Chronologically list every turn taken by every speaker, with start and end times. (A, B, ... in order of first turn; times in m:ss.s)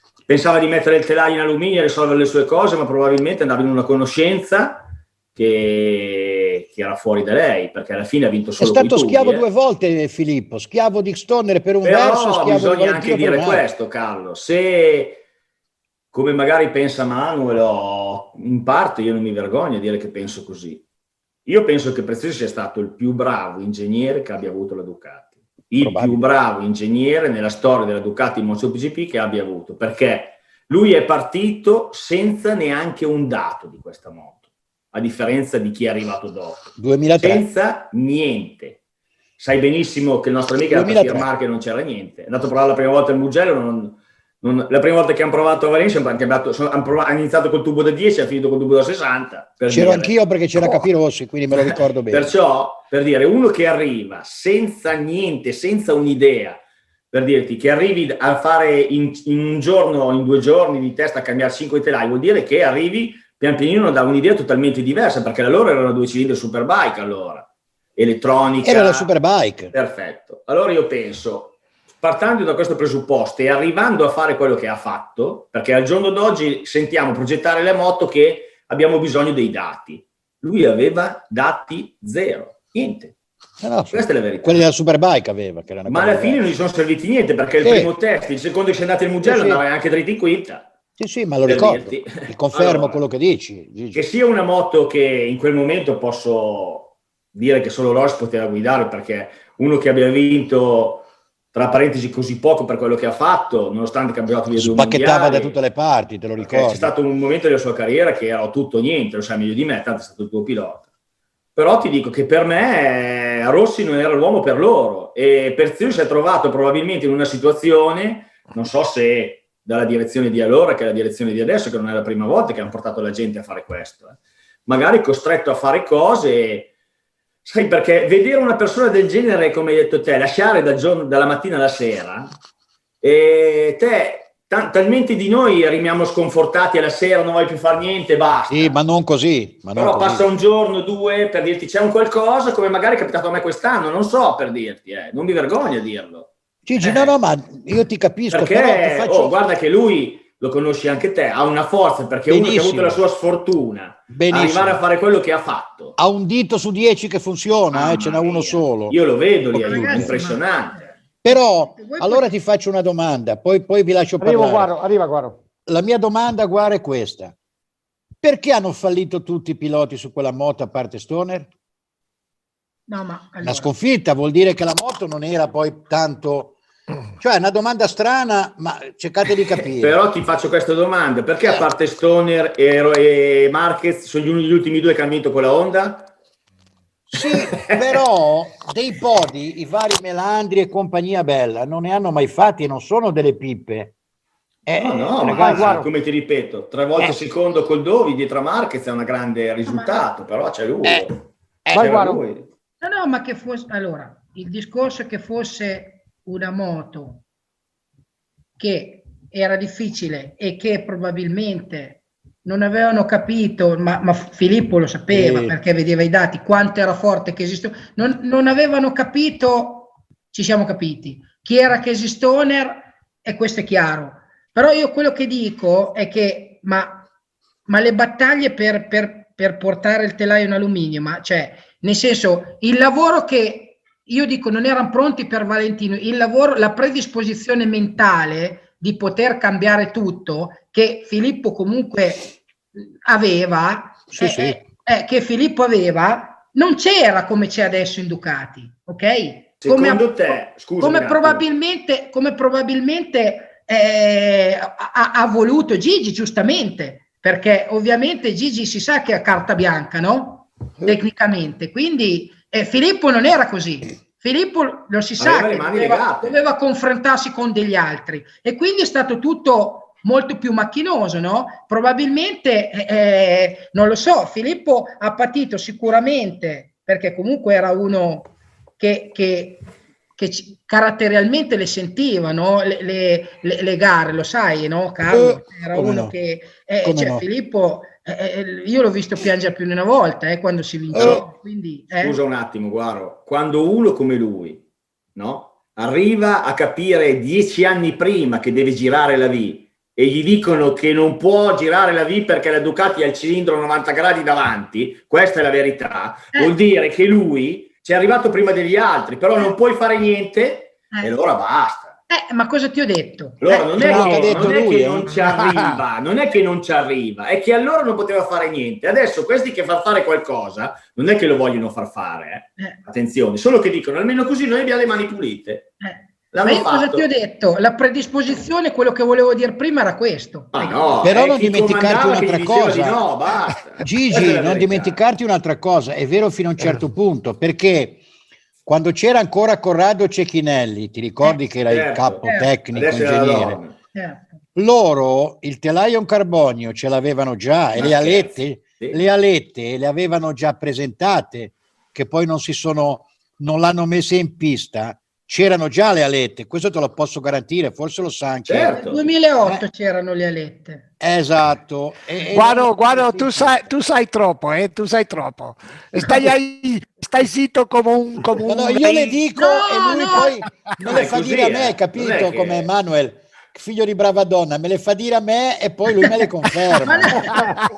0:00.3-0:09.4 A
0:08.6-0:13.6 B
0:11.8-0:15.2 A
0:16.1-0:20.8 A
0:21.5-0:34.4 A
0:25.8-0:26.2 B
0:34.9-0:38.8 A
0:36.8-0:37.4 B
0:39.4-0:50.8 A
0:40.7-0:41.3 B
0:49.7-0:52.3 B
0:51.5-0:56.6 A
0:57.1-1:09.1 A
1:08.6-1:09.7 B
1:09.7-1:23.1 A
1:23.6-1:26.4 B
1:23.9-1:24.7 A
1:25.9-1:30.7 A
1:27.6-1:27.9 B
1:29.2-1:29.6 B
1:31.0-1:34.0 B
1:31.4-1:33.0 A
1:33.9-1:45.6 A
1:44.5-1:46.9 B
1:46.4-1:50.8 A
1:51.6-2:06.7 A
2:07.4-2:12.3 A
2:13.0-2:18.8 A
2:18.5-2:20.3 B
2:19.8-2:26.3 A
2:26.7-2:29.4 B
2:26.8-2:27.1 A
2:28.3-2:36.0 A
2:32.3-2:33.0 B
2:34.1-2:34.8 B
2:36.0-2:39.0 B
2:37.7-2:40.8 A
2:39.5-2:40.2 B
2:39.6-2:42.3 C
2:41.2-2:44.7 B
2:44.2-2:45.4 D
2:45.7-2:47.3 B
2:48.2-2:51.5 B
2:52.9-2:53.7 C
2:53.4-2:56.6 B
2:57.2-3:00.0 B
2:59.8-3:06.1 A
3:07.1-3:13.9 B
3:07.2-3:08.0 A
3:14.7-3:15.8 B
3:14.8-3:21.2 A
3:15.3-3:15.9 D
3:19.7-3:20.0 C
3:21.7-3:22.2 D
3:21.7-3:22.4 A
3:22.8-3:27.2 C
3:28.6-3:47.1 C
3:35.1-3:35.6 B
3:47.7-4:39.6 C
4:04.1-4:04.6 B
4:09.6-4:11.4 A
4:25.2-4:26.4 A
4:40.2-4:52.2 C
4:45.1-4:46.2 B
4:46.8-4:47.2 B
4:50.9-4:51.2 B
4:51.0-4:51.2 A
4:52.0-4:54.6 A
4:55.2-5:12.0 A
5:12.1-5:14.0 C
5:13.4-5:25.7 A
5:13.8-5:15.1 B
5:13.9-5:14.5 E
5:15.2-5:15.7 E
5:25.8-5:31.1 C
5:26.3-5:27.0 A
5:30.5-5:35.0 A
5:31.0-5:33.0 B
5:33.8-5:38.0 B
5:38.7-5:43.6 B
5:41.7-5:43.8 A
5:42.2-5:42.5 C
5:43.9-5:44.4 C
5:44.6-5:58.8 B
5:47.8-5:49.0 A
5:58.5-5:59.1 A
5:58.7-6:00.9 C
6:01.0-6:03.7 B
6:02.3-6:09.2 E
6:08.4-6:17.4 B
6:09.4-6:10.3 C
6:10.8-6:12.7 A
6:16.8-6:17.4 C